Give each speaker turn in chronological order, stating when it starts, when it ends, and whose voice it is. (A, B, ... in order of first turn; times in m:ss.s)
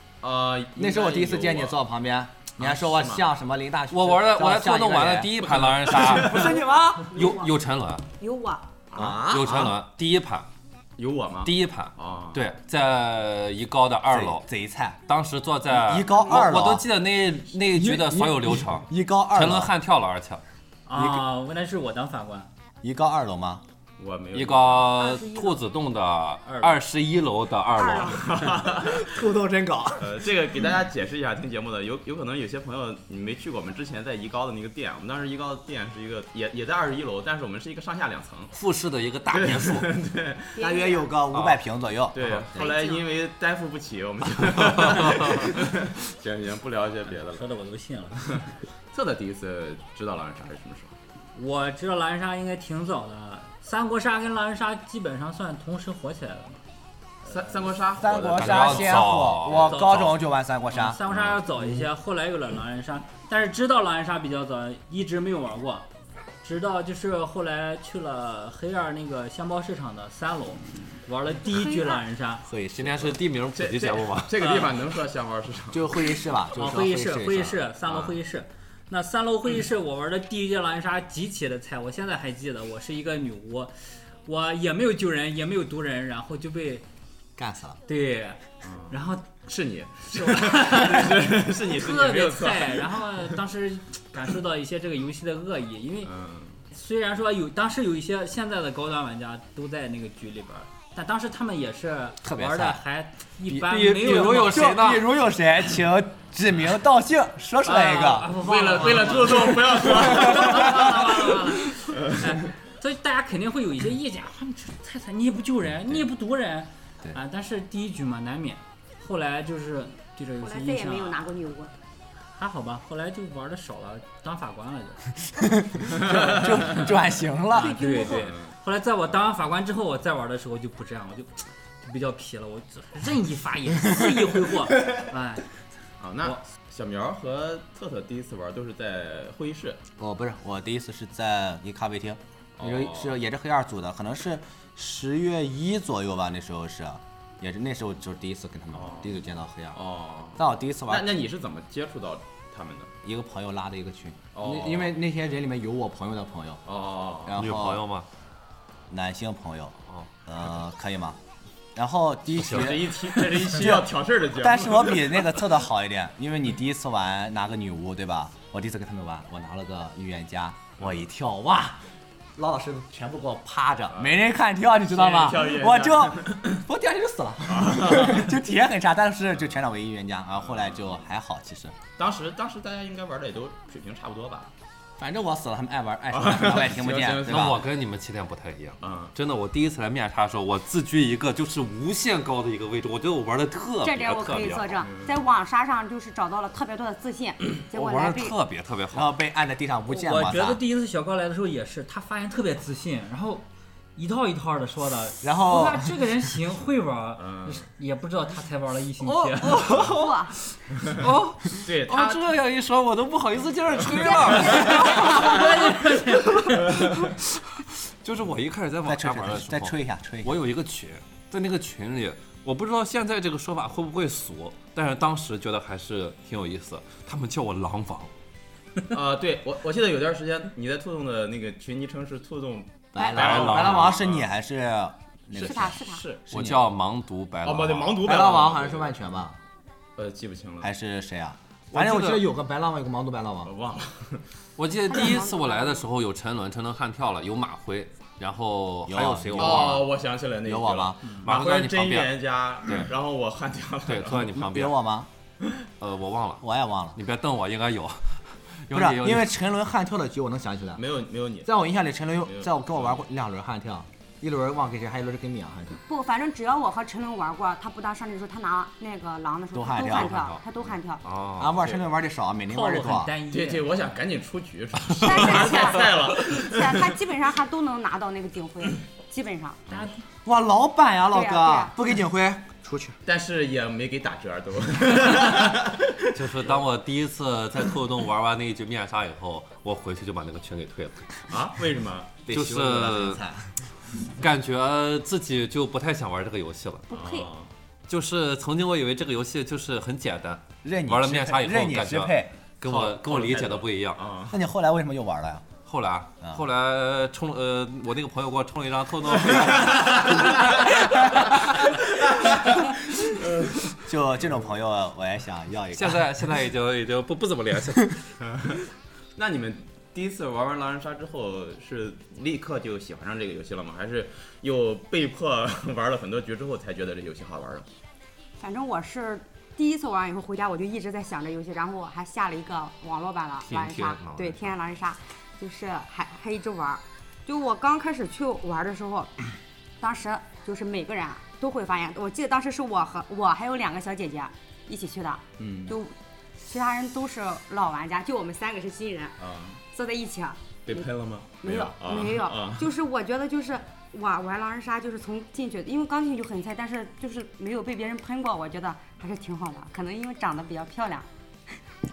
0:00.2-0:01.8 A
0:00.8-0:07.2 B
0:02.6-0:03.2 A
0:03.9-0:06.6 C
0:05.6-0:06.5 A
0:06.3-0:07.5 D
0:07.1-0:08.0 C
0:08.2-0:08.7 D
0:09.0-0:09.7 B
0:09.0-0:10.5 C
0:11.0-0:12.4 A
0:11.4-0:14.4 C
0:14.1-0:15.0 B
0:15.1-0:20.4 C
0:15.7-0:16.9 B
0:17.7-0:19.7 B
0:20.9-0:22.5 E
0:21.0-0:21.3 B
0:22.8-0:23.6 B
0:24.0-0:25.0 A
0:24.3-0:28.5 C
0:25.0-0:25.6 D
0:26.5-0:26.8 E
0:27.7-0:28.3 D
0:28.0-0:29.2 A
0:28.7-0:30.3 B
0:30.0-0:38.5 A
0:38.5-0:39.9 C
0:39.3-0:40.6 A
0:40.6-0:41.1 D
0:40.6-0:42.2 B
0:41.3-0:41.6 C
0:42.1-0:47.5 A
0:42.5-0:43.0 D
0:47.2-0:48.4 E
0:48.2-0:50.9 A
0:51.4-0:56.6 E
0:57.2-0:57.7 E
0:57.3-0:59.0 A
0:58.0-1:01.0 B
0:58.3-1:00.2 C
0:59.5-1:00.1 E
1:00.7-1:05.9 E
1:01.1-1:01.4 C
1:06.4-1:12.5 E
1:11.5-1:12.0 D
1:12.4-1:13.2 B
1:12.8-1:14.7 C
1:13.6-1:16.0 A
1:14.4-1:14.7 E
1:15.7-1:17.6 B
1:16.5-1:23.7 E
1:17.9-1:18.2 A
1:24.2-1:26.8 E
1:27.4-1:27.8 B
1:27.9-1:29.4 E
1:28.6-1:33.0 A
1:30.1-1:36.1 E
1:36.0-1:36.6 A
1:36.7-1:44.7 E
1:42.2-1:42.8 B
1:43.5-1:48.3 B
1:43.6-1:45.1 C
1:47.6-2:01.3 E
1:48.3-1:51.3 A
1:50.3-1:50.9 B
1:51.8-1:52.2 A
2:00.4-2:01.7 D
2:02.4-2:05.2 E
2:05.4-2:07.8 B
2:06.0-2:06.6 A
2:07.5-2:08.3 D
2:07.5-2:15.5 E
2:08.1-2:08.5 A
2:16.0-2:19.8 A
2:20.0-2:29.8 B
2:22.6-2:23.1 A
2:28.7-2:29.2 A
2:29.7-2:32.9 A
2:30.4-2:31.1 B
2:33.0-2:36.6 B
2:34.4-2:35.0 A
2:36.7-2:37.4 A
2:37.2-2:37.9 B
2:37.4-2:38.1 C
2:38.9-2:41.2 B
2:41.8-2:51.8 B
2:42.3-2:42.8 C
2:42.4-2:45.3 A
2:50.8-2:51.0 A
2:52.4-3:01.8 B
2:54.8-2:56.6 A
2:57.5-2:58.3 A
3:00.4-3:01.0 A
3:02.0-3:04.5 A
3:05.0-3:07.6 B
3:06.1-3:07.6 A
3:07.2-3:14.8 C
3:08.8-3:09.1 A
3:13.8-3:18.4 D
3:17.6-3:19.1 C
3:18.9-3:20.6 B
3:19.9-3:29.9 E
3:25.2-3:25.9 B
3:27.2-3:27.7 A
3:29.1-3:29.9 C
3:29.7-3:30.4 D
3:30.9-3:48.1 C
3:31.6-3:32.2 A
3:33.8-3:34.6 A
3:34.4-3:37.0 E
3:36.8-3:37.1 A
3:38.8-3:40.4 B
3:48.9-3:54.3 A
3:52.9-3:56.7 B
3:53.1-3:54.0 C
3:55.4-3:56.0 D
3:55.4-3:56.2 A
3:56.3-3:58.0 C
3:57.4-3:59.1 A
3:58.0-3:59.4 B
4:00.0-4:00.7 A
4:00.6-4:03.5 B
4:01.8-4:02.3 C
4:03.4-4:04.2 A
4:04.6-4:09.9 C
4:04.9-4:05.8 D
4:08.9-4:09.9 B
4:09.4-4:14.3 A
4:10.4-4:11.0 B
4:11.2-4:12.2 C
4:13.9-4:14.8 C
4:14.3-4:15.1 B
4:15.8-4:16.4 C
4:16.4-4:17.0 B
4:17.0-4:19.3 C
4:18.7-4:20.8 B
4:20.8-4:21.5 A
4:21.4-4:25.8 B
4:22.2-4:23.0 A
4:25.8-4:31.0 D
4:29.5-4:30.2 B
4:29.8-4:30.4 C
4:31.0-4:31.6 C
4:31.4-4:33.1 B
4:31.6-4:31.8 A
4:32.5-4:33.7 E
4:33.3-4:36.9 A
4:35.0-4:39.6 D
4:39.7-4:40.0 E
4:40.2-4:43.0 B
4:41.1-4:41.8 D
4:43.0-4:46.6 A
4:46.0-4:51.2 C
4:51.3-4:52.2 A
4:52.3-4:53.5 B
4:52.3-4:53.2 C
4:54.2-4:56.9 C
4:56.9-4:57.3 D
4:56.9-4:57.5 A
4:57.9-5:04.1 C
5:00.6-5:02.3 B
5:02.7-5:04.4 A
5:04.3-5:05.5 B
5:05.6-5:11.7 C
5:09.7-5:10.2 A
5:12.0-5:12.6 A
5:13.1-5:13.8 A
5:13.8-5:16.1 B
5:15.7-5:18.1 C
5:19.2-5:27.7 A
5:28.4-5:39.1 D
5:33.5-5:34.5 C
5:39.8-5:49.2 D
5:45.4-5:45.8 A
5:49.2-5:49.6 A
5:49.7-5:50.9 D
5:50.7-5:52.7 A
5:51.4-6:01.1 D